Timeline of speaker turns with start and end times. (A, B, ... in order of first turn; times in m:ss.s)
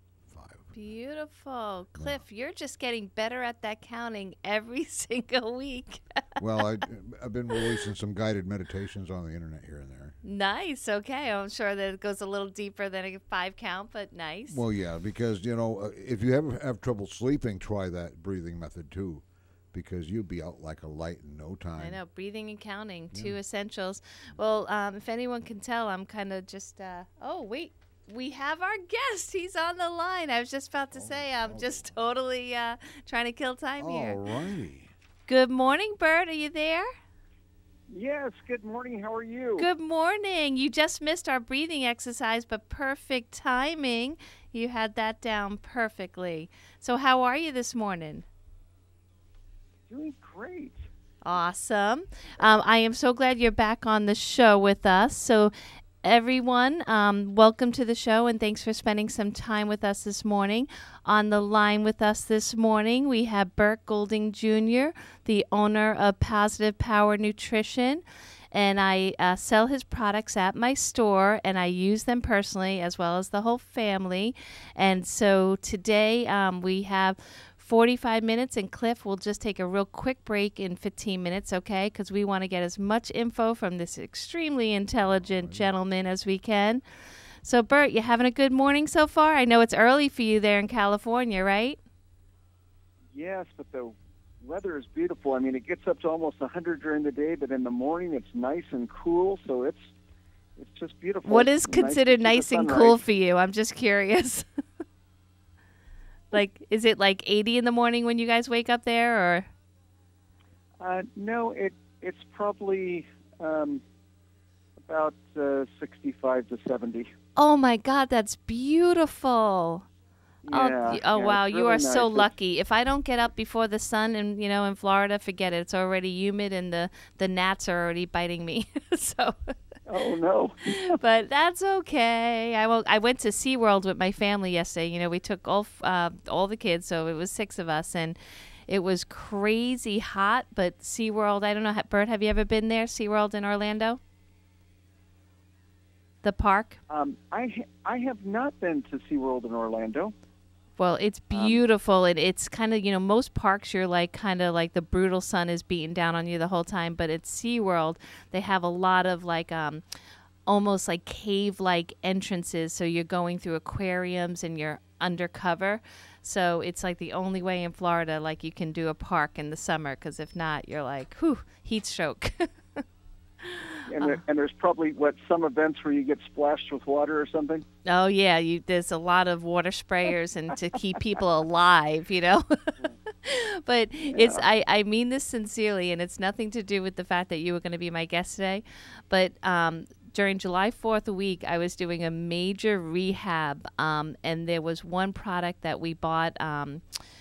0:00.3-0:00.7 A
0:00.7-0:06.7 B
0:02.0-0:02.2 A
0:06.4-0:10.2 A
0:10.2-0:14.6 B
0:14.5-0:22.0 A
0:21.8-0:34.2 B
0:30.9-0:31.9 A
0:33.8-0:34.9 A
0:35.3-0:36.9 B
0:37.9-0:39.7 C
0:39.6-0:48.3 B
0:49.9-0:50.8 C
0:51.2-0:55.5 B
0:56.0-1:26.8 B
1:25.0-1:25.7 A
1:27.4-1:31.8 B
1:33.1-1:39.9 C
1:40.6-1:43.0 C
1:41.3-1:44.5 B
1:46.3-1:49.5 B
1:50.8-1:53.8 C
1:54.8-1:57.1 C
1:57.4-1:59.9 B
2:00.4-2:02.3 C
2:00.5-2:09.5 B
2:09.9-2:11.0 C
2:10.6-2:18.2 B
2:18.7-2:24.0 B
2:26.2-2:26.8 B
2:26.9-2:30.1 C
2:30.8-2:39.8 B
2:31.3-2:31.6 C
2:40.5-2:52.8 B
2:53.4-2:54.2 B
2:53.9-2:57.6 C
2:57.9-3:16.8 B
3:04.1-3:04.5 C